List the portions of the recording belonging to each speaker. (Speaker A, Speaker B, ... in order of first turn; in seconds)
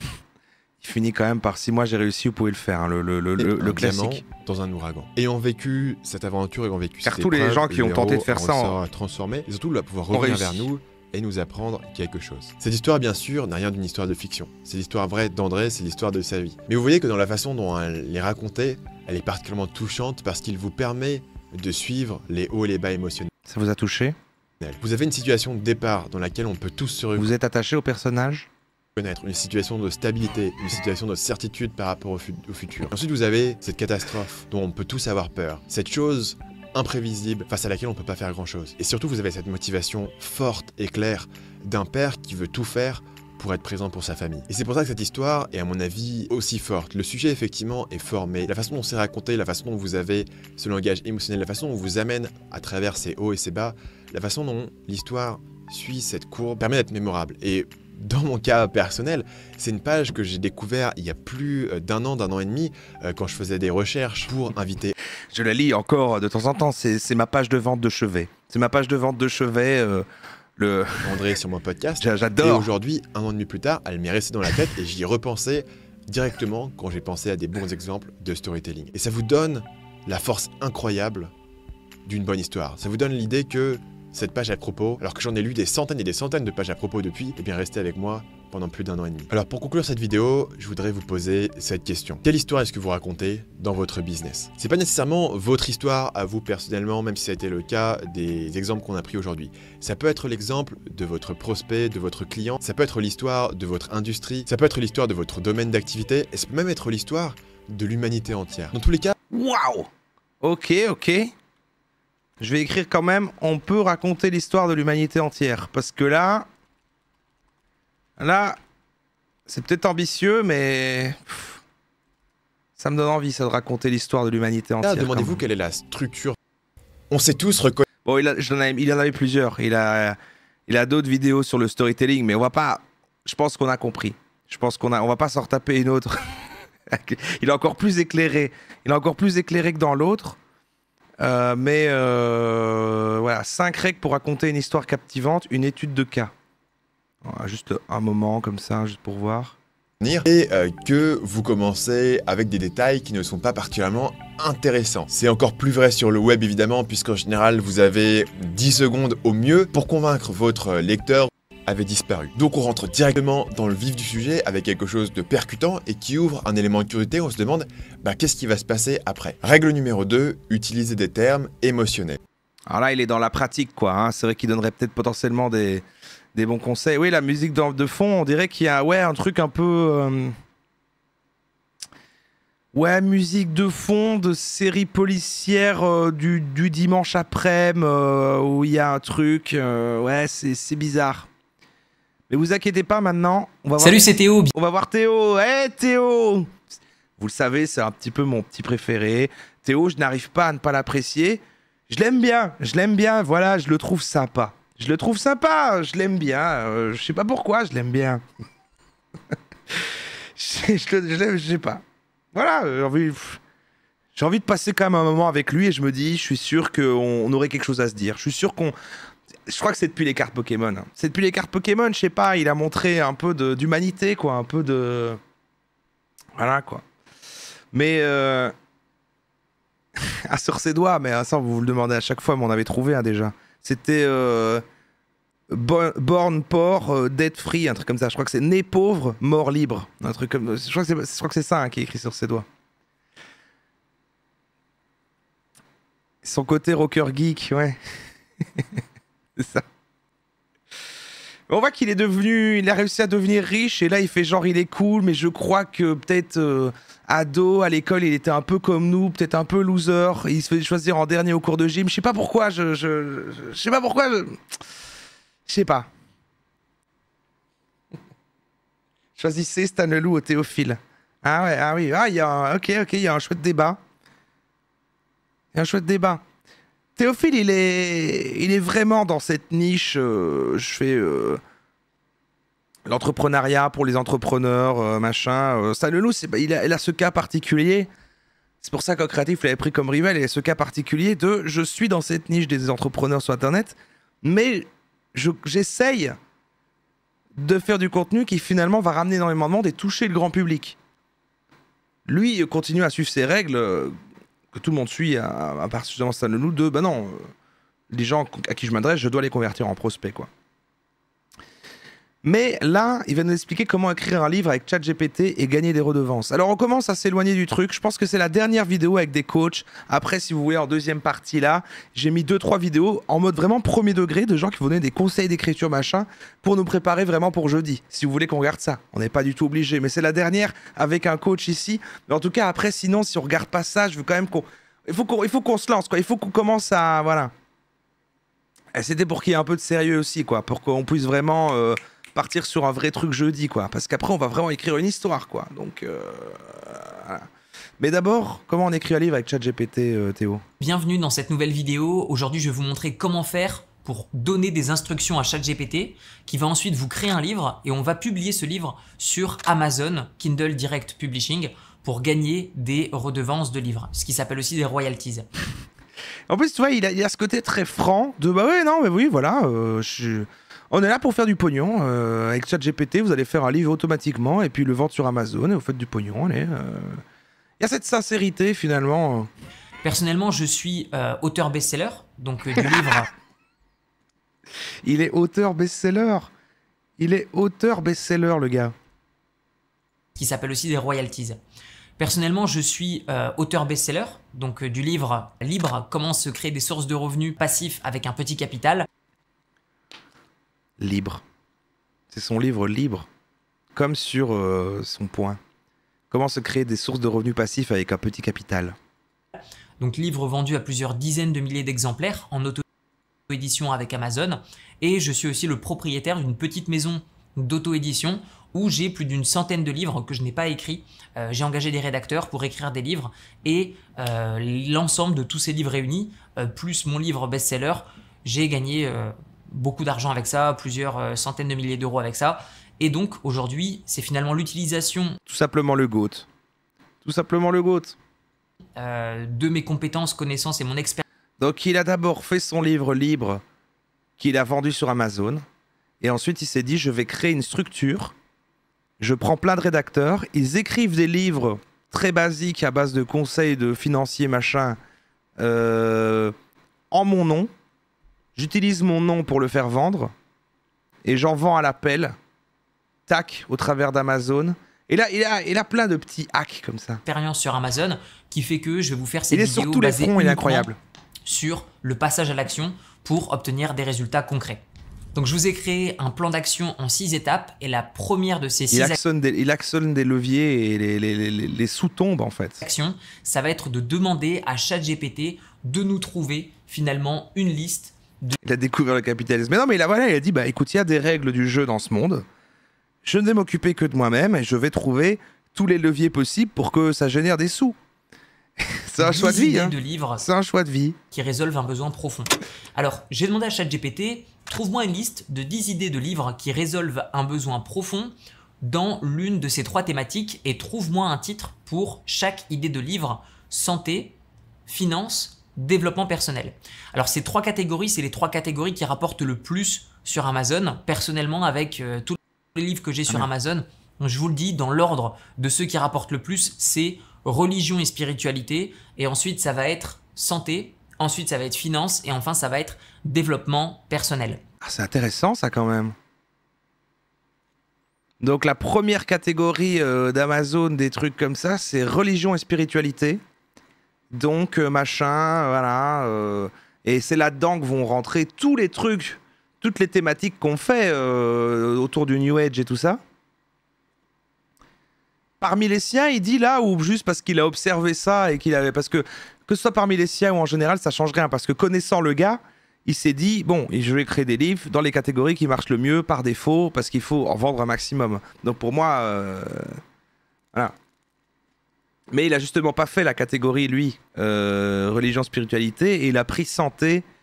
Speaker A: 0.8-4.2, 7.0-8.8, 10.1-10.7, 23.5-24.1, 27.1-28.5, 65.3-70.0, 70.6-71.3, 72.0-72.7, 109.3-109.9, 110.4-111.3, 112.4-116.5, 118.2-118.6, 119.5-121.6, 122.8-125.4, 128.0-136.2, 136.9-140.4, 141.2-146.3, 147.2-149.6, 172.7-175.8, 176.3-180.3, 182.7-191.3, 192.3-196.6, 197.2-208.2, 210.3-211.8, 212.3-213.4, 214.2-218.7, 219.5-225.2, 226.4-226.8, 227.7-228.5, 230.3-234.6, 235.5-242.4, 246.2-247.8, 249.4-249.6, 251.5-264.4, 265.5-265.9, 269.2-273.8, 275.5-276.2, 276.9-281.4, 282.9-287.9, 288.6-296.1, 297.4-300.8, 302.1-303.9, 304.5-307.3, 307.9-310.3, 312.2-337.3, 338.7-347.3, 347.8-350.4, 366.3-377.0, 377.6-379.3, 384.8-386.3, 387.0-388.7, 400.8-401.2, 402.1-403.1, 403.7-405.4, 406.1-408.8, 435.3-436.3, 437.0-437.9, 441.4-443.4, 444.2-445.4, 446.0-448.1, 449.0-454.8, 455.4-456.3, 456.9-457.5, 458.4-460.1, 461.0-462.1, 463.1-467.0, 469.3-470.8, 478.7-482.6, 488.4-492.2, 493.0-497.8, 498.9-501.0, 534.6-535.9, 538.2-543.2, 544.1-553.0, 555.4-569.8, 572.1-577.0
Speaker B: 3.4-23.3, 24.6-27.3, 28.9-64.9, 71.0-81.3, 82.0-109.2, 124.8-126.3, 127.1-127.8, 150.0-172.2
Speaker C: 193.8-194.5, 350.6-365.3, 379.8-383.1, 390.2-391.4, 392.0-398.9, 409.8-412.6, 413.3-435.2, 438.8-441.0, 467.0-470.7, 471.2-474.6, 475.1-479.0, 482.6-488.4, 499.0-500.2, 501.1-534.4